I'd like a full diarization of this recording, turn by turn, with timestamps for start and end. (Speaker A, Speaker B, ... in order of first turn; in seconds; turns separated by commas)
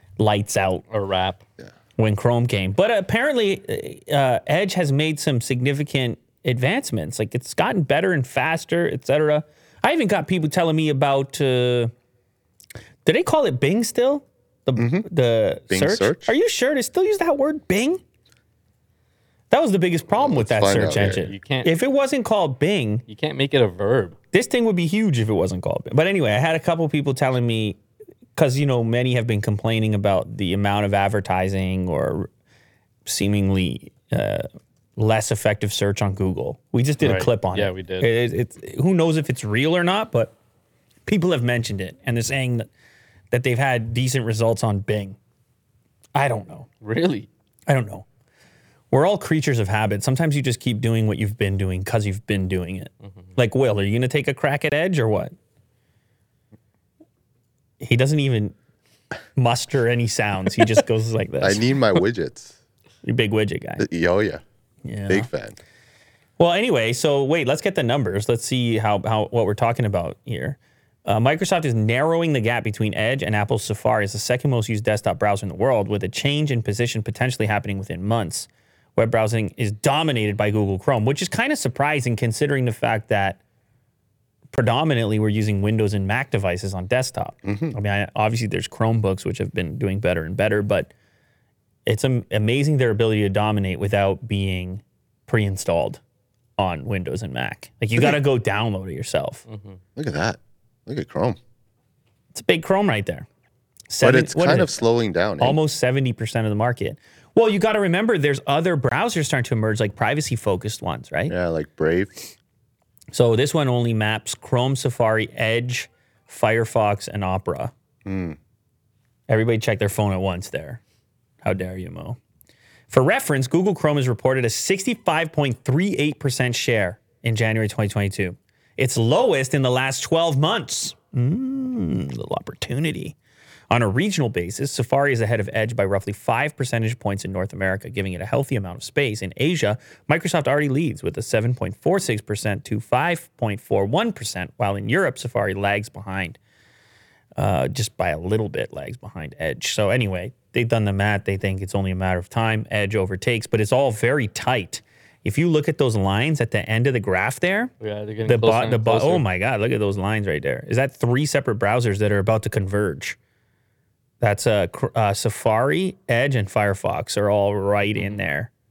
Speaker A: 0.2-0.8, Speaker B: 0.9-1.4, Speaker A: 2.0-11.9, Speaker A: 13.0-18.0, Speaker C: 14.8-15.1, Speaker C: 15.7-16.3, Speaker A: 19.5-23.0, Speaker C: 20.2-21.3, Speaker B: 21.0-21.7, Speaker B: 23.1-24.2, Speaker A: 24.3-27.8, Speaker A: 28.4-32.3, Speaker A: 33.0-40.3, Speaker B: 37.0-38.1, Speaker A: 41.0-42.7, Speaker A: 43.3-45.2, Speaker A: 46.1-46.7, Speaker B: 46.8-47.3, Speaker A: 47.7-48.0, Speaker A: 48.9-55.3, Speaker A: 57.8-58.5, Speaker A: 59.4-61.7, Speaker C: 61.4-62.6, Speaker A: 63.0-63.9, Speaker C: 63.8-64.4, Speaker A: 64.8-65.3, Speaker C: 65.1-65.6, Speaker A: 66.4-83.4, Speaker A: 84.5-90.9, Speaker C: 87.4-87.7, Speaker A: 91.8-96.0, Speaker A: 96.6-99.4, Speaker B: 99.5-99.8, Speaker C: 100.0-101.4, Speaker A: 102.3-103.2, Speaker A: 103.9-104.7, Speaker C: 104.0-105.6, Speaker A: 105.4-111.3, Speaker C: 111.3-112.2, Speaker A: 113.1-117.7, Speaker C: 118.0-118.4, Speaker A: 119.3-120.8, Speaker A: 121.4-122.2, Speaker A: 122.9-133.2, Speaker A: 133.7-146.4, Speaker A: 147.4-157.7, Speaker B: 157.8-159.2, Speaker A: 158.2-163.2, Speaker A: 164.2-168.5, Speaker B: 167.9-168.2